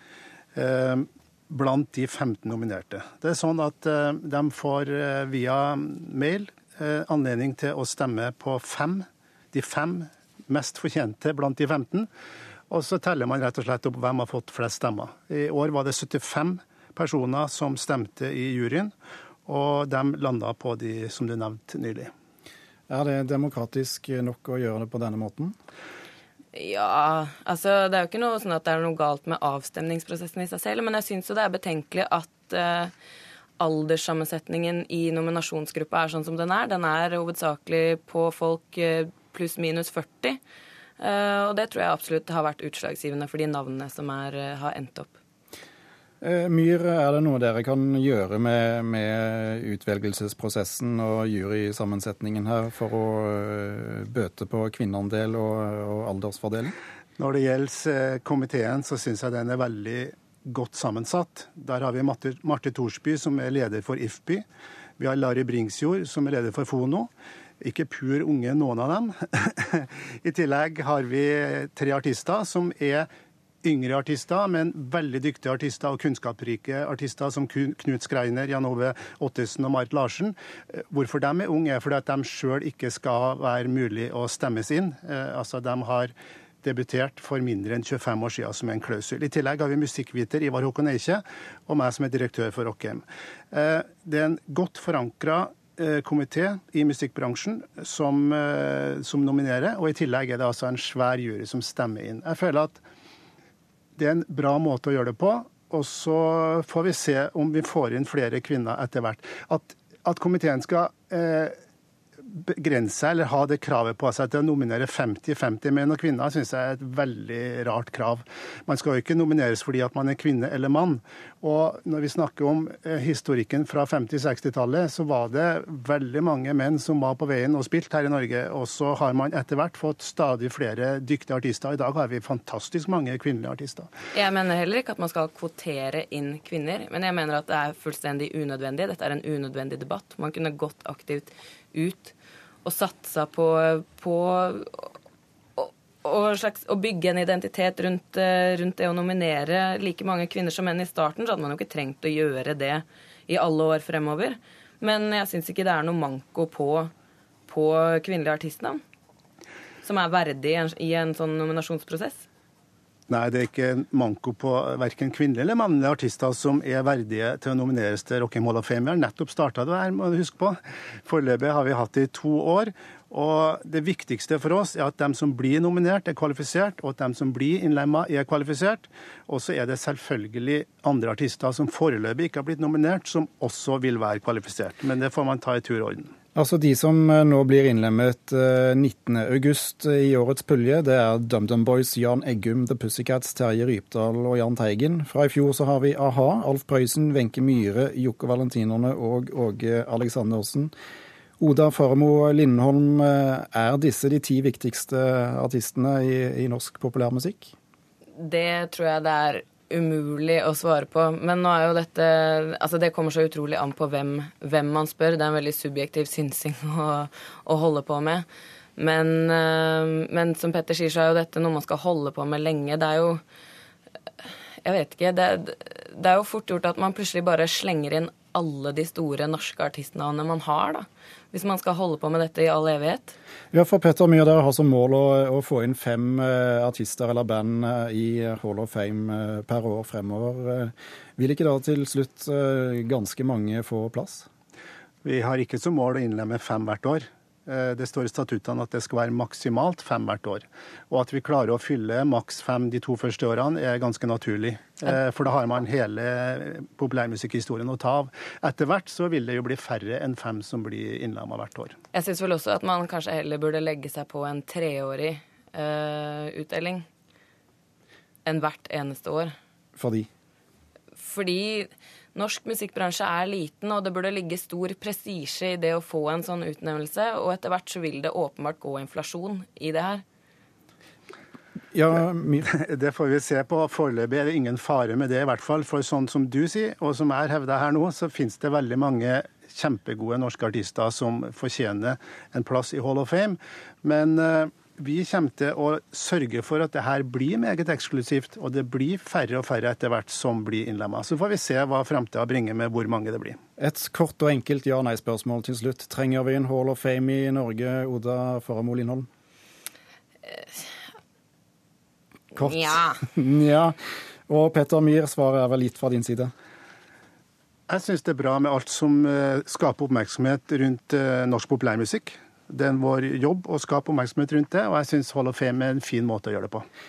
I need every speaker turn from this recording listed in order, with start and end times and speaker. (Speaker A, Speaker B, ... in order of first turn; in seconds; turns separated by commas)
Speaker A: 0.6-12.1, Speaker A: 12.7-18.9, Speaker A: 19.5-22.1, Speaker B: 22.9-25.6, Speaker C: 26.5-32.9, Speaker C: 33.6-40.4, Speaker C: 41.0-45.1, Speaker B: 46.2-56.7, Speaker A: 57.2-64.5, Speaker A: 65.0-73.1, Speaker A: 73.6-102.8, Speaker A: 104.0-111.5, Speaker A: 112.2-133.9, Speaker C: 134.1-144.9, Speaker C: 145.6-156.9, Speaker C: 157.5-158.8, Speaker C: 159.8-162.2, Speaker A: 163.1-186.1, Speaker B: 186.3-200.7, Speaker B: 201.4-207.5, Speaker C: 208.2-218.2, Speaker C: 218.8-223.2, Speaker C: 224.6-233.2, Speaker B: 233.5-244.3, Speaker A: 245.0-261.8, Speaker C: 261.9-266.9, Speaker C: 268.2-269.3, Speaker B: 269.8-270.1, Speaker C: 271.0-280.0, Speaker B: 281.7-282.5, Speaker A: 282.4-303.4, Speaker B: 303.6-309.1, Speaker C: 312.4-313.0, Speaker B: 312.4-313.8, Speaker B: 314.3-316.3, Speaker A: 317.7-326.7